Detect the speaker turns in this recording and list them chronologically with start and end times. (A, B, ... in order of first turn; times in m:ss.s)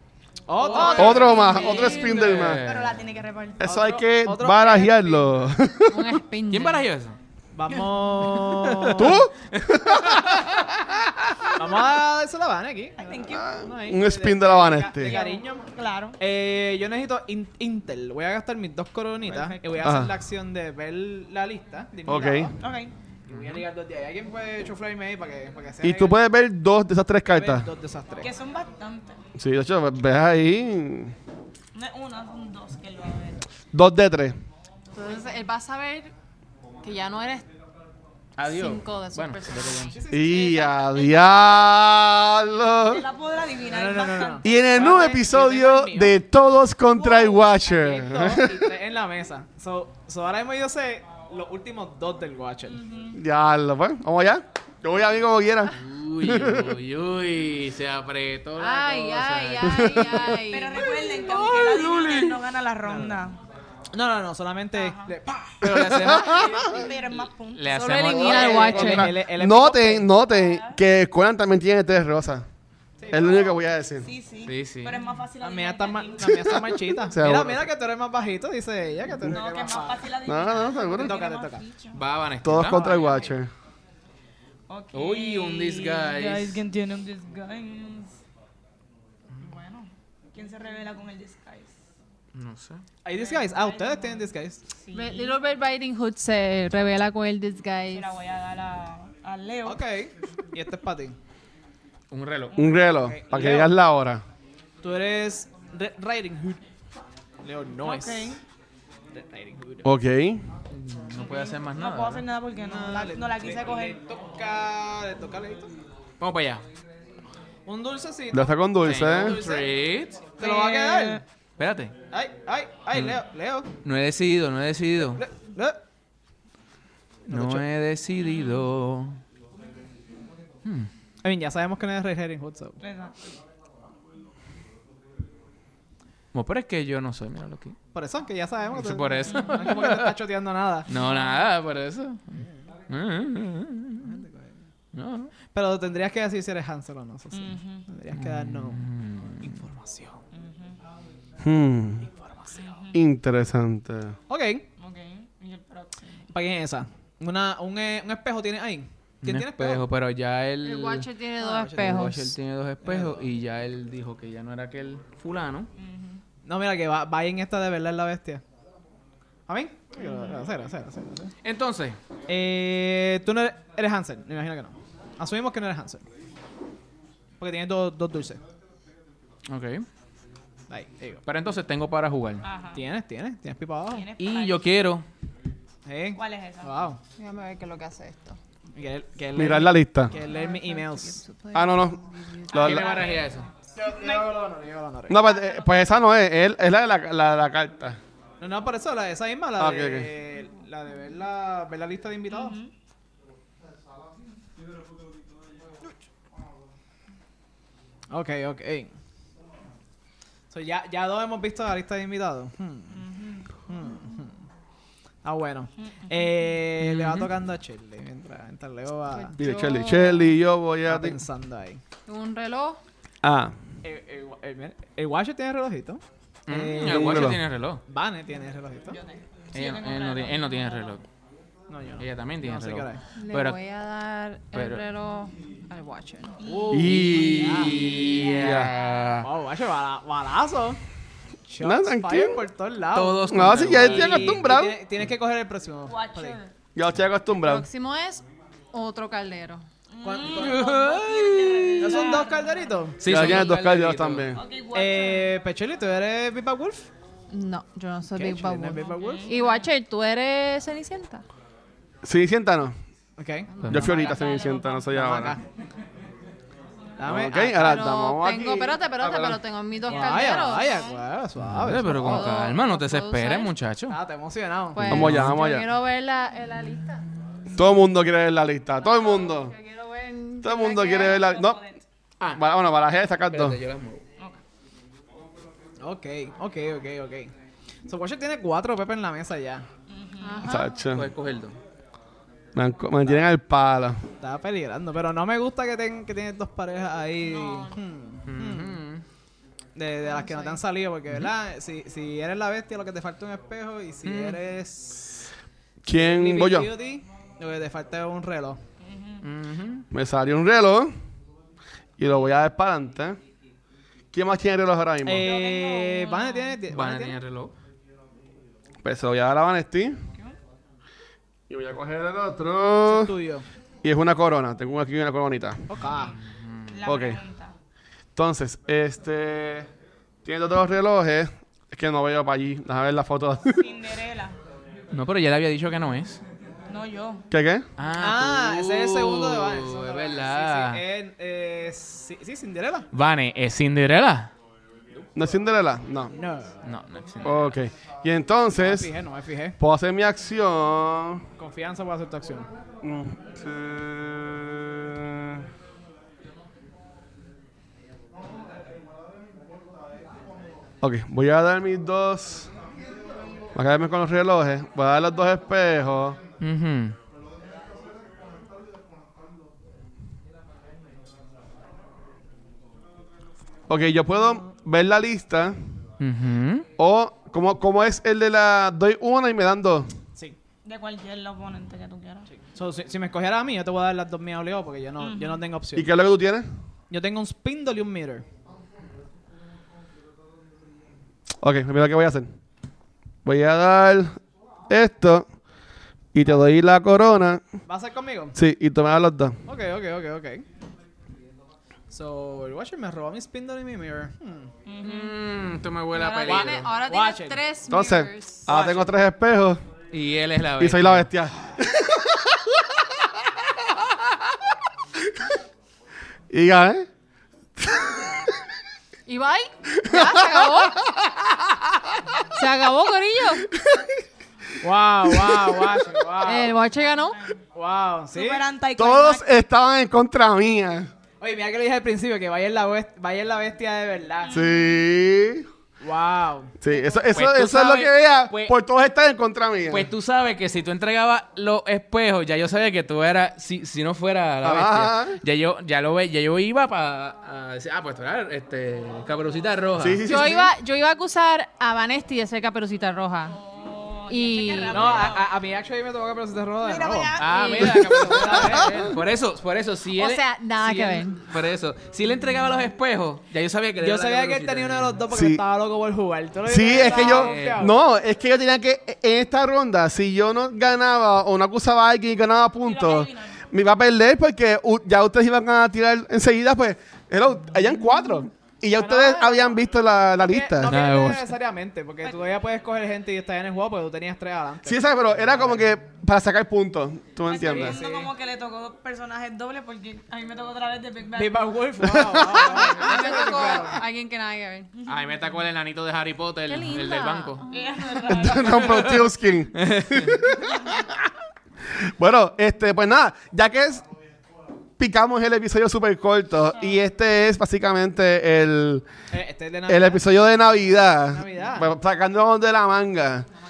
0:00.5-0:02.0 A
0:00.6-0:03.0 B
0:00.6-0:03.7 C
0:00.9-0:02.6 D
0:01.3-0:01.8 E
0:03.6-0:06.2 D
0:03.6-0:05.4 A
0:05.9-0:06.9 E
0:06.5-0:07.2 B
0:07.5-0:09.2 A
0:08.3-0:11.4 B
0:09.0-0:10.7 D
0:11.6-0:15.7 A
0:13.0-0:13.6 C
0:13.4-0:15.1 D
0:15.0-0:16.2 C
0:16.2-0:22.6 A
0:19.3-0:19.8 C
0:19.8-0:20.1 D
0:22.1-0:22.5 D
0:22.6-0:22.9 C
0:23.3-0:23.6 B
0:23.3-0:26.2 A
0:25.8-0:27.7 D
0:27.3-0:28.3 A
0:28.2-0:29.2 C
0:29.4-0:31.1 D
0:31.7-0:33.4 C
0:33.7-0:34.4 D
0:34.9-0:36.1 E
0:36.8-0:37.5 E
0:38.4-0:40.0 B
0:38.5-0:40.0 E
0:39.9-0:40.9 A
0:40.1-0:43.0 D
0:40.8-0:41.8 C
0:42.8-0:44.4 C
0:43.7-0:46.2 A
0:44.4-0:48.7 D
0:47.0-0:52.8 A
0:52.7-0:53.2 C
0:53.1-0:56.8 D
0:55.7-1:00.1 B
0:58.6-1:00.9 E
0:59.6-1:00.4 D
1:00.4-1:03.4 C
1:01.3-1:02.4 B
1:02.8-1:03.2 A
1:03.9-1:06.8 A
1:04.8-1:05.2 C
1:05.6-1:06.6 B
1:05.6-1:06.7 D
1:06.3-1:08.8 C
1:07.6-1:08.9 B
1:07.7-1:09.1 E
1:08.2-1:10.1 A
1:08.8-1:12.5 D
1:10.3-1:10.8 C
1:13.0-1:13.5 A
1:13.1-1:14.1 D
1:14.0-1:16.5 C
1:14.4-1:15.0 B
1:15.4-1:20.2 A
1:16.3-1:17.6 D
1:19.3-1:22.0 C
1:20.2-1:21.2 D
1:21.0-1:21.6 A
1:21.9-1:22.9 B
1:22.4-1:23.5 D
1:22.8-1:23.3 C
1:24.7-1:28.2 C
1:24.9-1:26.6 B
1:29.4-1:31.8 C
1:32.3-1:32.8 B
1:33.0-1:34.6 A
1:33.1-1:34.3 C
1:34.8-1:35.4 C
1:34.9-1:38.1 E
1:37.9-1:39.8 C
1:39.6-1:41.2 A
1:42.1-1:42.5 B
1:42.5-1:43.0 C
1:42.6-1:44.2 D
1:42.9-1:43.7 A
1:44.8-1:46.6 A
1:47.4-1:48.4 A
1:47.8-1:48.4 C
1:49.1-1:49.9 A
1:49.8-1:50.4 D
1:50.7-1:52.2 B
1:51.2-1:54.0 C
1:52.6-1:55.7 A
1:56.2-1:56.6 B
1:57.7-1:59.7 A
1:58.3-1:59.4 D
1:58.8-2:00.3 B
2:00.4-2:01.2 A
2:00.4-2:01.2 C
2:01.6-2:01.9 B
2:02.1-2:03.7 A
2:02.9-2:03.2 B
2:03.8-2:05.2 B
2:05.0-2:05.8 A
2:07.3-2:07.7 A
2:07.3-2:09.2 B
2:11.2-2:12.8 A
2:12.8-2:13.2 C
2:16.3-2:17.8 B
2:17.9-2:20.9 A
2:18.8-2:20.1 B
2:20.9-2:24.2 B
2:24.0-2:24.5 A
2:24.9-2:25.3 B
2:25.5-2:28.9 A
2:27.3-2:27.9 C
2:28.2-2:29.7 B
2:29.4-2:30.2 A
2:30.3-2:30.8 C
2:31.4-2:32.1 D
2:32.1-2:32.6 A
2:32.5-2:33.0 C
2:32.9-2:34.2 D
2:34.3-2:34.7 A
2:34.8-2:36.2 C
2:36.3-2:39.8 A
2:39.2-2:41.1 B
2:40.6-2:42.3 E
2:41.4-2:42.2 A
2:41.7-2:45.7 B
2:42.8-2:43.2 A
2:45.8-2:46.2 C
2:46.4-2:48.4 A
2:49.5-2:51.3 A
2:50.0-2:50.4 C
2:51.4-2:52.0 B
2:52.3-2:56.0 A
2:57.4-2:58.4 A
2:59.5-2:59.9 B
3:00.7-3:01.2 A
3:01.3-3:02.5 B
3:02.4-3:02.8 C
3:02.7-3:04.1 A
3:03.9-3:04.7 C
3:04.2-3:05.1 B
3:05.8-3:07.0 A
3:06.1-3:06.9 C
3:07.2-3:08.4 E
3:08.8-3:11.2 A
3:09.4-3:10.2 D
3:10.1-3:12.9 E
3:11.5-3:12.9 D
3:12.5-3:13.5 B
3:12.6-3:14.3 C
3:13.8-3:15.3 A
3:15.1-3:18.0 D
3:15.2-3:15.8 C
3:18.4-3:22.6 A
3:19.6-3:20.1 D
3:22.3-3:22.7 C
3:28.1-3:28.9 A
3:30.5-3:33.0 A
3:32.9-3:33.5 C
3:33.7-3:34.4 A
3:35.2-3:39.4 A
3:35.8-3:36.4 C
3:36.8-3:37.3 B
3:39.2-3:40.3 E
3:39.4-3:41.2 D
3:40.8-3:41.8 A
3:42.1-3:42.8 E
3:43.2-3:43.5 D
3:43.8-3:47.4 A
3:46.5-3:47.8 B
3:46.8-3:47.4 D
3:47.9-3:49.0 A
3:48.9-3:51.0 C
3:49.5-3:51.0 B
3:51.7-3:53.0 A
3:52.0-3:53.6 B
3:53.2-3:56.4 E
3:54.5-3:54.8 B
3:56.4-3:57.0 C
3:56.4-3:58.2 A
3:56.7-3:58.7 D
3:56.8-3:59.3 B
3:58.0-3:59.1 C
3:59.2-4:00.8 A
4:01.5-4:06.4 A
4:01.6-4:02.4 D
4:02.9-4:04.4 B
4:03.3-4:04.8 D
4:05.9-4:06.5 C
4:06.8-4:07.7 D
4:07.3-4:09.7 E
4:09.9-4:12.9 C
4:10.0-4:10.7 A
4:10.3-4:12.1 B
4:11.8-4:13.0 A
4:13.0-4:14.3 B
4:13.0-4:14.4 D
4:14.3-4:15.3 C
4:14.7-4:16.9 A
4:17.3-4:21.2 E
4:18.1-4:19.3 A
4:19.0-4:19.7 C
4:22.0-4:22.8 D
4:23.2-4:23.8 A
4:23.6-4:24.0 B
4:23.7-4:25.4 D
4:23.8-4:24.8 C
4:24.9-4:25.4 A
4:27.0-4:27.8 A
4:27.1-4:29.4 D
4:27.6-4:31.0 E
4:29.9-4:32.2 A
4:30.0-4:30.3 C
4:31.5-4:34.0 B
4:31.7-4:33.5 E
4:33.9-4:35.1 A
4:34.7-4:37.1 E
4:34.8-4:35.4 B
4:34.9-4:35.7 D
4:37.5-4:39.6 D
4:38.8-4:41.3 E
4:40.4-4:41.6 D
4:40.8-4:41.8 C
4:42.3-4:43.6 D
4:43.3-4:44.0 B
4:45.8-4:47.3 A
4:47.9-4:49.7 A
4:49.9-4:50.6 C
4:50.2-4:50.8 E
4:50.4-4:51.1 D
4:50.9-4:51.6 B
4:52.6-4:54.0 D
4:54.2-4:58.8 A
4:57.3-4:57.7 C
4:58.3-4:59.0 B
4:59.8-5:05.2 A
5:00.2-5:00.6 E
5:04.0-5:04.4 B
5:05.8-5:06.7 D
5:05.9-5:08.6 A
5:08.8-5:09.2 C
5:09.2-5:09.9 B
5:09.9-5:10.9 D
5:12.0-5:13.2 D
5:14.1-5:15.3 D
5:15.0-5:17.2 A
5:15.2-5:16.6 C
5:16.7-5:17.5 B
5:18.8-5:20.0 D
5:21.5-5:23.1 D
5:22.8-5:23.5 A
5:23.8-5:25.7 D
5:25.7-5:26.2 A
5:26.0-5:26.7 B
5:26.7-5:27.6 C
5:26.8-5:27.2 D
5:28.2-5:29.7 D
5:30.2-5:33.7 D
5:33.6-5:34.4 C
5:34.9-5:36.2 B
5:36.7-5:37.3 C
5:37.3-5:37.7 D
5:37.8-5:40.8 B
5:38.0-5:42.9 A
5:42.9-5:44.3 B
5:45.2-5:46.1 D
5:46.1-5:46.6 A
5:46.6-5:47.6 B
5:47.2-5:48.9 D
5:48.5-5:49.6 A
5:49.6-5:51.2 D
5:51.4-5:52.5 A
5:52.8-5:55.4 D
6:00.8-6:02.5 D
6:03.5-6:06.2 D
6:06.4-6:07.0 B
6:13.7-6:15.6 D
6:16.0-6:16.7 B
6:16.8-6:19.9 D
6:20.6-6:22.3 C
6:22.5-6:25.9 A
6:25.0-6:25.4 C
6:25.8-6:26.5 D
6:26.9-6:28.2 A
6:31.4-6:32.3 D
6:33.2-6:35.3 D
6:36.1-6:37.4 D
6:37.7-6:38.4 A
6:38.4-6:39.4 D
6:39.5-6:40.4 A
6:41.9-6:44.5 A
6:44.7-6:45.1 C
6:44.8-6:46.7 B
6:44.8-6:45.1 E
6:45.9-6:48.5 E
6:46.2-6:47.4 A
6:47.7-6:49.6 D
6:48.5-6:48.9 A
6:49.9-6:51.1 B
6:50.6-6:52.4 D
6:56.3-6:56.9 D
6:57.6-6:58.2 D
6:59.1-7:00.8 E
6:59.8-7:01.6 D
7:02.3-7:03.5 E
7:03.5-7:03.9 D
7:04.6-7:06.6 A
7:05.1-7:05.9 D
7:06.2-7:07.2 E
7:06.8-7:07.4 C
7:07.6-7:08.4 A
7:08.1-7:09.3 C
7:08.8-7:10.9 D
7:11.2-7:14.4 A
7:14.2-7:14.8 C
7:14.3-7:15.5 D
7:15.8-7:16.6 A
7:16.6-7:19.9 D
7:17.1-7:18.5 B
7:19.7-7:30.0 B
7:24.4-7:25.2 D
7:29.8-7:30.5 D
7:30.0-7:33.4 E
7:33.5-7:35.3 C
7:34.1-7:35.1 E
7:34.7-7:37.2 A
7:36.6-7:38.4 C
7:37.2-7:45.0 B
7:37.3-7:38.6 E
7:37.8-7:38.9 A
7:38.5-7:39.0 D
7:40.0-7:41.2 E
7:43.8-7:47.8 A
7:45.1-7:45.4 D
7:46.4-8:00.8 D
7:46.9-7:47.7 B
7:52.6-7:53.4 C
7:58.8-7:59.5 C
7:59.1-7:59.4 A
8:00.2-8:05.6 A
8:00.6-8:01.3 B
8:04.6-8:07.8 D
8:07.3-8:11.6 C
8:07.3-8:08.1 A
8:11.2-8:13.8 A
8:11.8-8:12.5 D
8:12.4-8:14.7 E
8:14.9-8:17.4 B
8:16.5-8:18.2 E
8:17.5-8:19.0 C
8:18.1-8:21.0 D
8:18.4-8:20.3 B
8:21.8-8:23.8 D
8:24.8-8:28.8 D
8:29.1-8:30.2 A
8:29.7-8:33.3 D
8:31.1-8:31.7 A